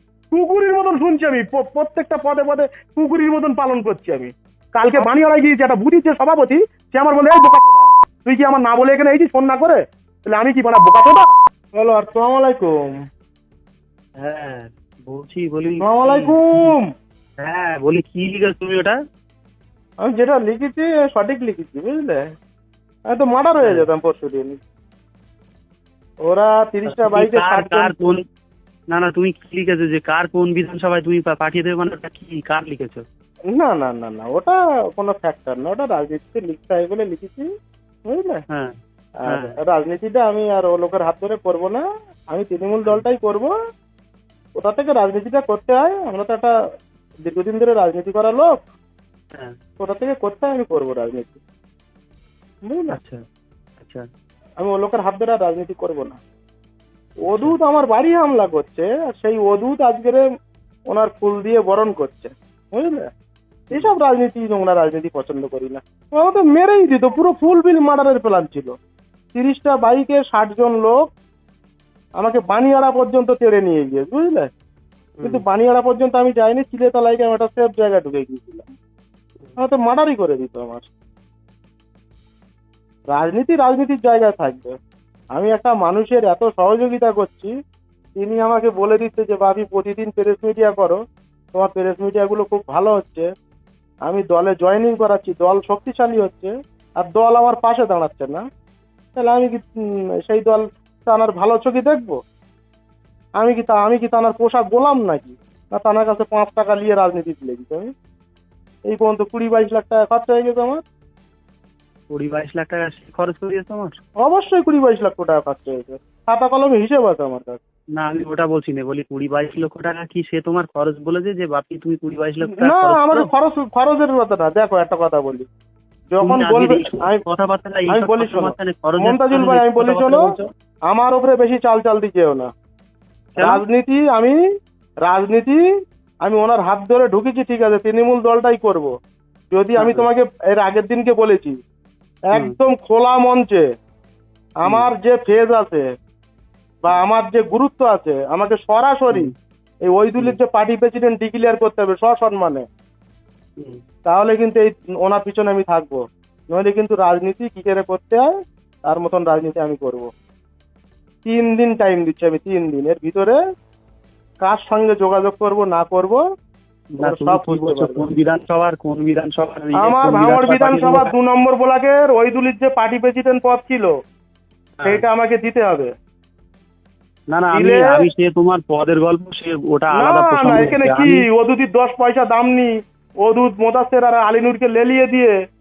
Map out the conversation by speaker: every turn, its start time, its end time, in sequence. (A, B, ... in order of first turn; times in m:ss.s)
0:00.3-0:12.8 A
0:14.2-0:16.7 B
0:15.8-0:16.9 A
0:17.4-0:19.0 B
0:20.0-0:22.2 A
0:23.1-0:24.6 A
0:26.2-0:28.0 A
0:26.8-0:28.2 B
0:28.9-0:33.0 B
0:33.5-0:37.5 A
0:38.1-0:38.4 A
0:39.2-0:43.5 A
0:39.3-0:39.6 B
0:44.6-0:46.5 A
0:47.3-0:48.5 A
0:49.8-0:51.4 A
0:52.7-0:53.0 A
0:52.9-0:53.2 B
0:53.8-0:54.1 B
0:54.6-0:56.2 A
0:57.2-0:57.6 B
0:57.2-1:00.2 A
1:00.9-1:03.1 A
1:03.7-1:08.8 A
1:09.3-1:11.0 A
1:12.2-1:14.5 A
1:15.2-1:15.4 B
1:15.2-1:18.6 A
1:19.6-1:20.9 A
1:23.1-1:24.7 A
1:25.3-1:27.5 A
1:28.2-1:31.0 A
1:31.5-1:33.3 A
1:34.1-1:38.4 A
1:39.2-1:39.7 A
1:40.2-1:42.2 A
1:43.4-1:47.9 A
1:48.9-1:50.8 A
1:52.1-1:54.0 B
1:54.2-1:57.6 A
1:58.0-2:03.3 B
2:02.5-2:05.5 A
2:06.1-2:07.2 A
2:06.2-2:10.5 B
2:07.9-2:10.2 A
2:10.9-2:12.5 A
2:13.4-2:13.6 B
2:13.4-2:14.4 A
2:15.1-2:15.6 A
2:16.2-2:18.9 A
2:19.5-2:21.6 A
2:19.8-2:20.1 B
2:22.3-2:23.6 A
2:24.6-2:25.8 A
2:26.8-2:29.3 A
2:29.9-2:32.6 A
2:34.1-2:38.3 A
2:38.8-2:40.1 A
2:41.2-2:43.4 A
2:44.4-2:46.2 A
2:47.0-2:51.1 B
2:47.0-2:48.1 A
2:49.8-2:53.9 A
2:54.8-2:55.9 A
2:57.3-3:01.2 B
2:57.5-2:58.0 A
2:59.9-3:02.7 A
3:03.2-3:05.3 A